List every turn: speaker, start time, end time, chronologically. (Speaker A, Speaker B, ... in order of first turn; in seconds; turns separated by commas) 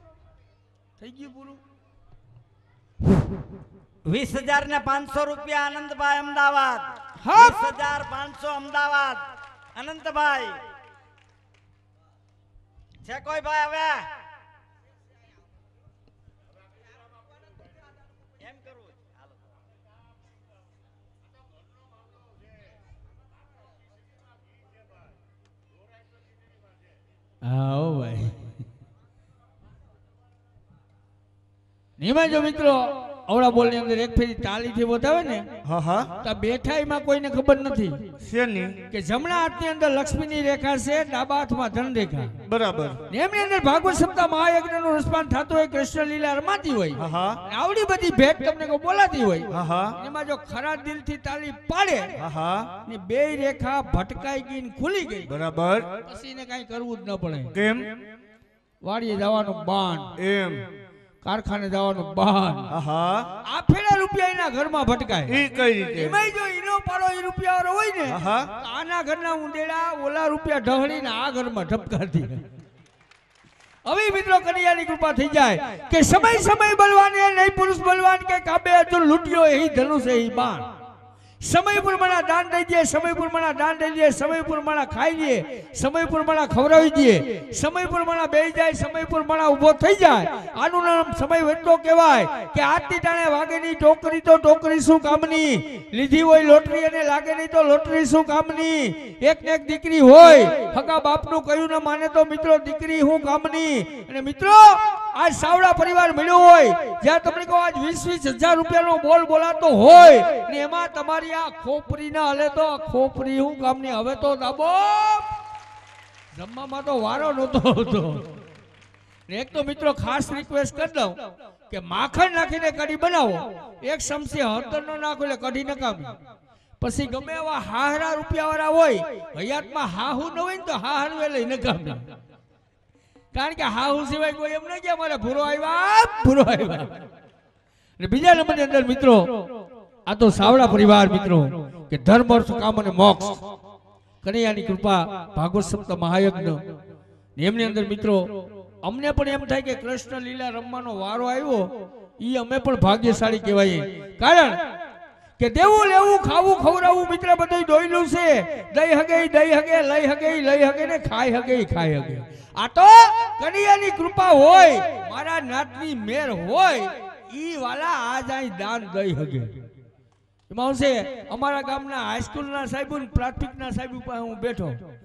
Speaker A: 1.0-1.6, Speaker B: 4.0-10.6, Speaker A: 7.2-7.7, Speaker B: 13.0-14.1, Speaker B: 18.4-19.1, Speaker A: 27.4-28.5, Speaker A: 32.0-35.5, Speaker C: 35.6-36.1, Speaker A: 36.2-38.1, Speaker C: 38.2-38.8, Speaker A: 38.9-42.3, Speaker C: 42.5-43.0, Speaker A: 43.1-52.1, Speaker C: 47.0-47.4, Speaker C: 49.5-49.9, Speaker C: 52.2-52.7, Speaker A: 52.9-55.3, Speaker C: 55.3-55.9, Speaker A: 56.0-57.5, Speaker C: 57.5-57.9, Speaker A: 58.8-60.1, Speaker C: 60.2-60.6, Speaker A: 61.2-62.7, Speaker C: 62.7-63.3, Speaker A: 63.5-72.4, Speaker C: 65.3-66.2, Speaker C: 68.1-68.5, Speaker A: 73.8-80.7, Speaker A: 81.4-115.3, Speaker A: 116.3-118.3, Speaker A: 119.3-126.1, Speaker A: 126.8-132.0, Speaker A: 133.3-136.9, Speaker A: 138.0-139.4, Speaker A: 140.1-143.4, Speaker A: 144.2-146.6, Speaker A: 147.4-148.3, Speaker A: 148.8-154.6, Speaker A: 155.4-169.5, Speaker A: 170.5-174.8